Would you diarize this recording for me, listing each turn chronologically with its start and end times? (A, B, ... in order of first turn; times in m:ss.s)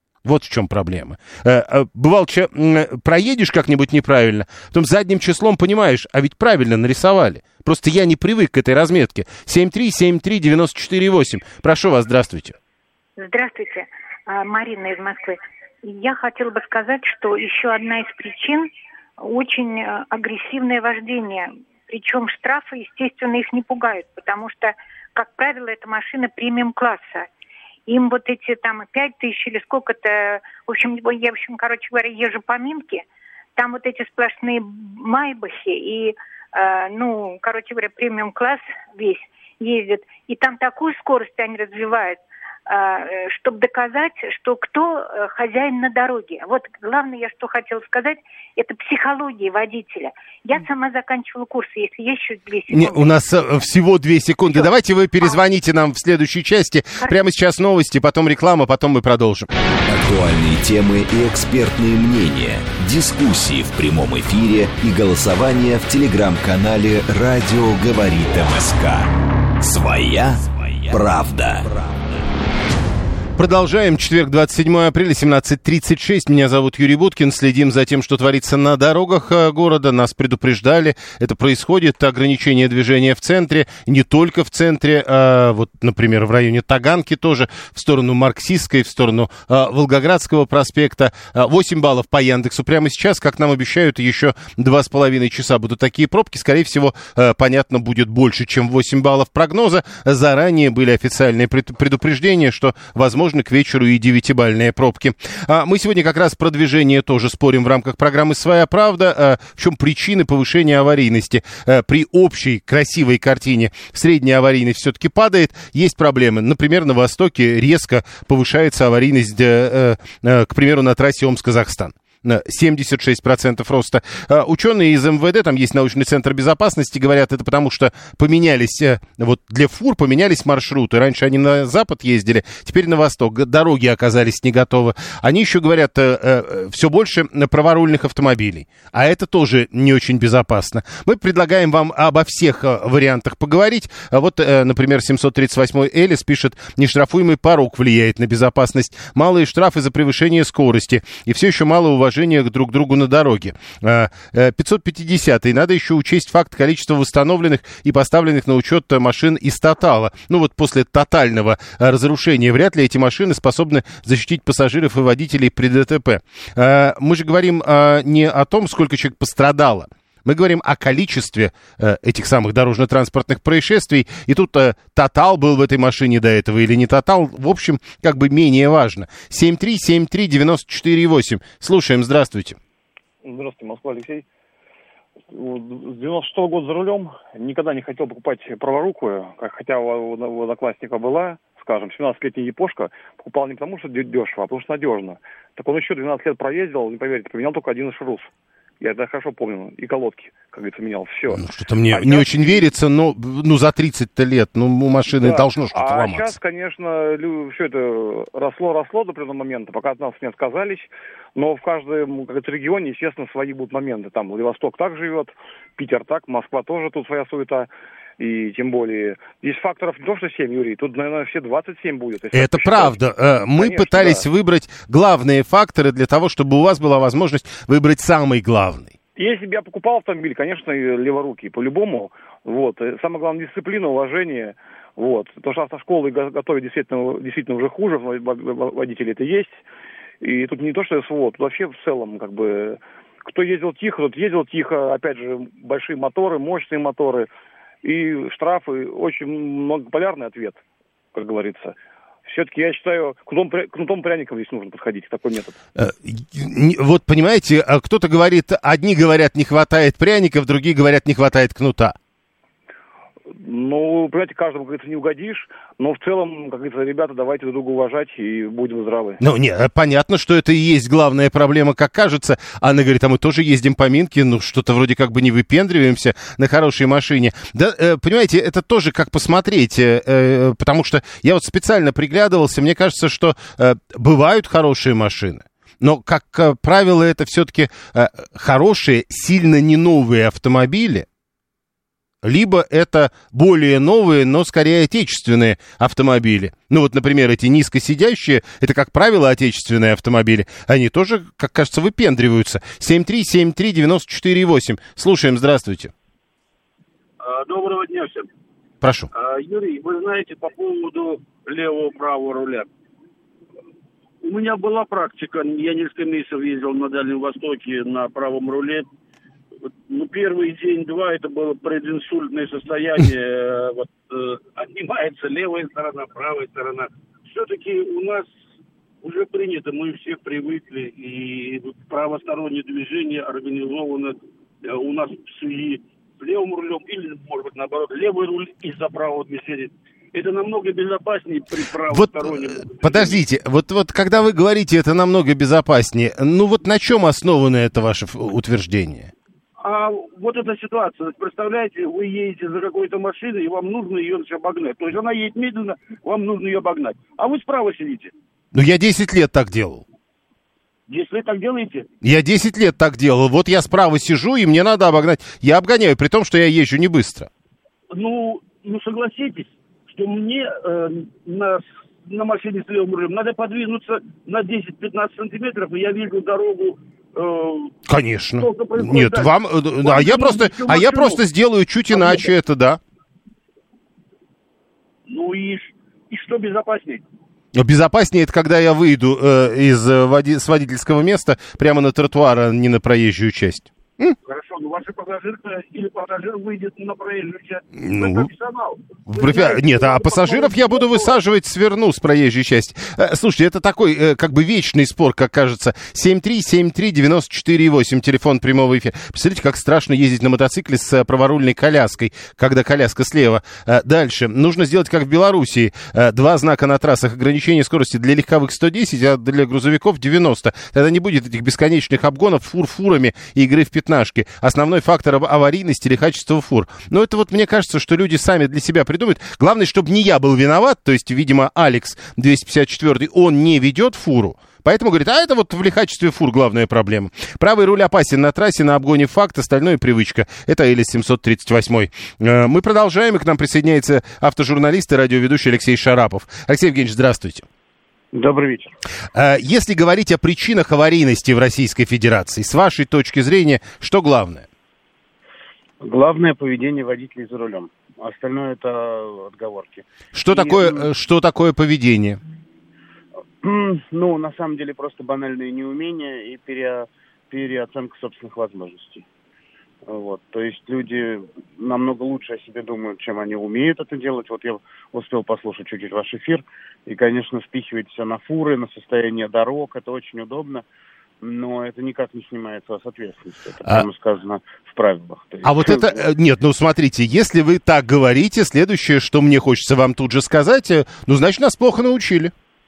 0:00.2-0:12.6 A
0:13.2-0:18.7 B
0:19.2-0:27.3 B
0:27.9-0:33.0 B
0:33.6-0:53.1 B
0:52.7-0:59.5 A
0:59.8-1:11.9 C
1:13.4-3:02.6 A
3:03.2-3:04.2 D
3:05.3-3:22.7 D
3:21.3-3:26.3 A
3:25.1-3:44.2 D
3:42.3-3:48.9 A
3:49.2-3:59.6 D
4:00.2-4:07.3 D
4:07.8-4:10.6 D
4:11.1-4:15.6 D
4:15.8-4:22.0 A
4:23.4-4:29.2 D
4:29.2-4:51.0 A
4:52.2-5:05.9 A
5:07.2-5:08.3 E
5:08.8-5:09.1 A
5:09.1-5:12.7 E
5:14.2-5:18.9 E
5:19.9-5:28.3 E
5:29.0-5:43.2 E
5:41.9-5:49.1 A
5:49.6-5:58.1 E
5:58.5-5:59.8 A
6:00.9-6:01.9 E
6:02.0-6:07.3 A
6:07.9-6:17.7 E
6:17.9-6:22.8 A
6:18.4-6:21.2 E
6:21.9-6:22.3 E
6:25.1-6:27.0 E
6:27.5-6:34.2 A
6:34.2-6:41.2 E
6:37.8-6:38.3 A
6:39.1-7:27.5 A
7:28.1-7:28.7 F
7:29.1-7:34.5 A
7:35.8-7:40.8 F
7:40.1-7:42.2 A
7:43.4-7:49.0 F
7:49.8-8:00.6 F
8:01.2-8:06.0 F
8:05.4-8:12.3 A